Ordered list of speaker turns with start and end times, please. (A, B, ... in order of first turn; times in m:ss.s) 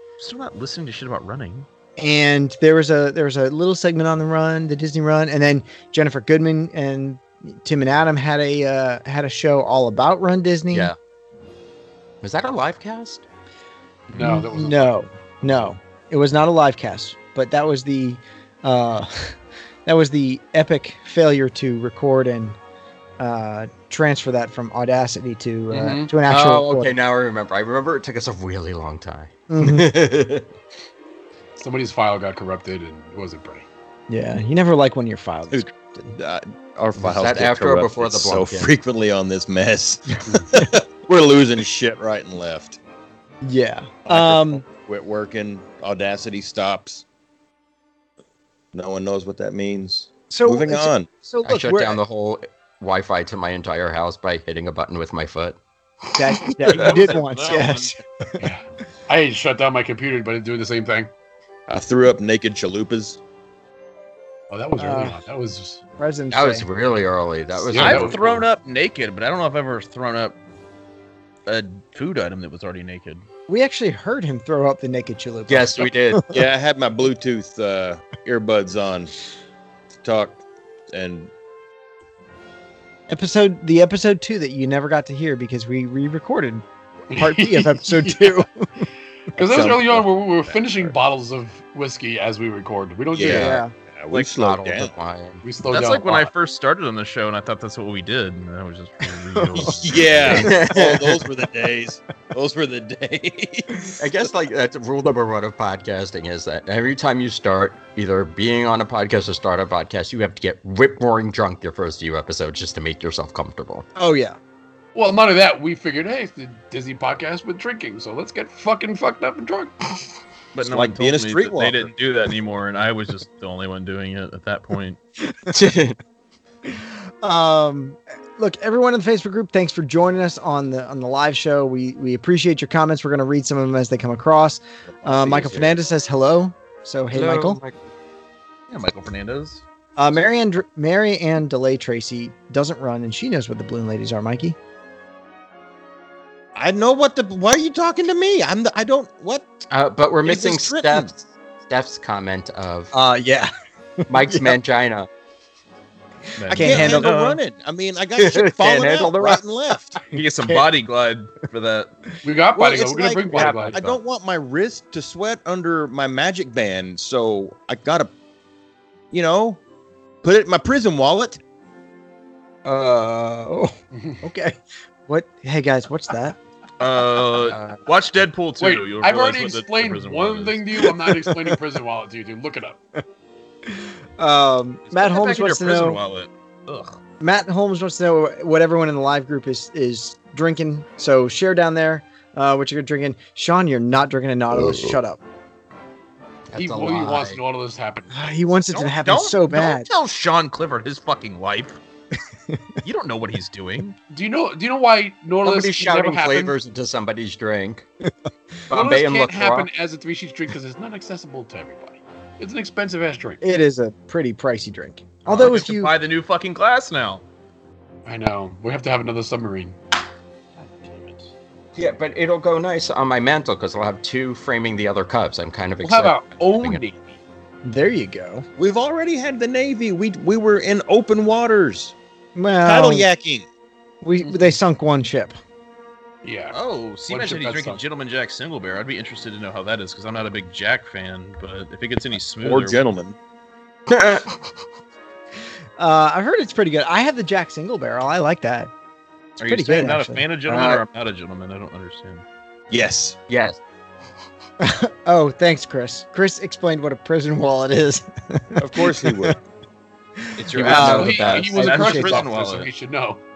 0:00.2-0:01.7 A
0:02.0-0:10.9 B
0:10.7-0:11.0 C
0:12.2-0:13.2 C
0:14.1-0:15.0 D
0:14.2-0:22.6 B
0:23.2-0:26.9 B
0:25.7-0:26.1 D
0:26.2-0:30.5 C
0:29.5-0:30.0 B
0:31.6-0:33.7 D
0:34.1-0:35.8 B
0:35.5-0:42.8 E
0:37.0-0:38.7 C
0:43.4-0:44.7 B
0:44.0-0:47.0 E
0:48.7-0:51.1 E
0:50.3-0:52.0 B
0:51.4-0:55.6 C
0:56.2-0:58.3 B
0:56.5-0:56.9 C
0:56.6-0:57.9 A
0:58.4-1:01.1 D
1:01.7-1:03.2 E
1:04.5-1:05.8 D
1:04.8-1:05.2 B
1:06.0-1:06.7 B
1:06.3-1:08.4 C
1:07.7-1:08.2 D
1:07.8-1:10.4 A
1:11.5-1:13.2 A
1:13.5-1:16.2 B
1:15.5-1:16.3 C
1:16.3-1:19.1 E
1:20.0-1:21.3 E
1:23.1-1:28.7 B
1:27.1-1:28.4 D
1:29.4-1:33.6 D
1:29.4-1:30.9 E
1:33.1-1:34.9 E
1:33.3-1:33.7 B
1:34.1-1:35.4 C
1:35.4-1:36.3 D
1:35.7-1:40.5 A
1:39.4-1:40.8 B
1:39.6-1:43.9 E
1:40.3-1:41.2 C
1:44.0-1:53.9 C
1:54.0-1:54.4 B
1:55.0-1:59.8 D
2:00.5-2:05.0 A
2:00.6-2:01.9 E
2:05.5-2:06.0 C
2:06.7-2:17.6 B
2:15.1-2:15.7 E
2:17.1-2:17.8 C
2:18.7-2:19.6 A
2:20.0-2:24.6 B
2:26.6-2:29.5 E
2:29.7-2:32.9 C
2:30.2-2:31.1 E
2:32.9-2:33.5 B
2:34.0-2:34.6 B
2:34.1-2:35.1 C
2:36.4-2:37.4 A
2:36.5-2:40.0 E
2:36.5-2:37.2 B
2:38.2-2:39.4 C
2:40.1-2:41.9 A
2:42.2-2:43.8 D
2:42.6-2:48.1 E
2:43.3-2:44.0 A
2:49.1-2:49.6 E
2:50.2-2:51.4 E
2:52.6-2:56.4 B
2:53.9-2:54.2 D
2:56.8-3:00.8 A
2:57.4-2:57.8 C
2:58.6-3:02.8 D
3:03.7-3:06.0 B
3:04.9-3:07.0 A
3:07.2-3:15.2 B
3:16.5-3:17.4 C
3:16.6-3:18.3 D
3:18.1-3:19.9 B
3:18.7-3:21.8 A
3:22.8-3:24.0 A
3:24.1-3:26.5 D
3:25.4-3:27.9 C
3:28.7-3:29.7 C
3:28.7-3:33.4 D
3:33.4-3:35.9 B
3:35.3-3:37.2 A
3:38.1-3:39.8 D
3:40.7-3:41.2 A
3:41.8-3:46.8 C
3:45.8-3:47.2 D
3:47.6-3:48.5 B
3:48.6-3:52.0 E
3:52.4-3:53.1 B
3:52.6-3:53.5 E
3:54.0-3:55.4 B
3:56.2-3:56.6 D
3:56.5-4:02.8 A
3:57.1-3:57.8 D
4:02.4-4:03.2 E
4:03.9-4:04.4 C
4:05.8-4:08.7 B
4:09.4-4:12.2 A
4:09.4-4:10.2 B
4:10.5-4:10.8 C
4:12.7-4:13.2 E
4:13.3-4:13.6 C
4:14.6-4:19.3 B
4:18.6-4:19.4 E
4:20.4-4:22.7 A
4:20.4-4:22.3 B
4:20.6-4:21.6 C
4:20.6-4:23.2 D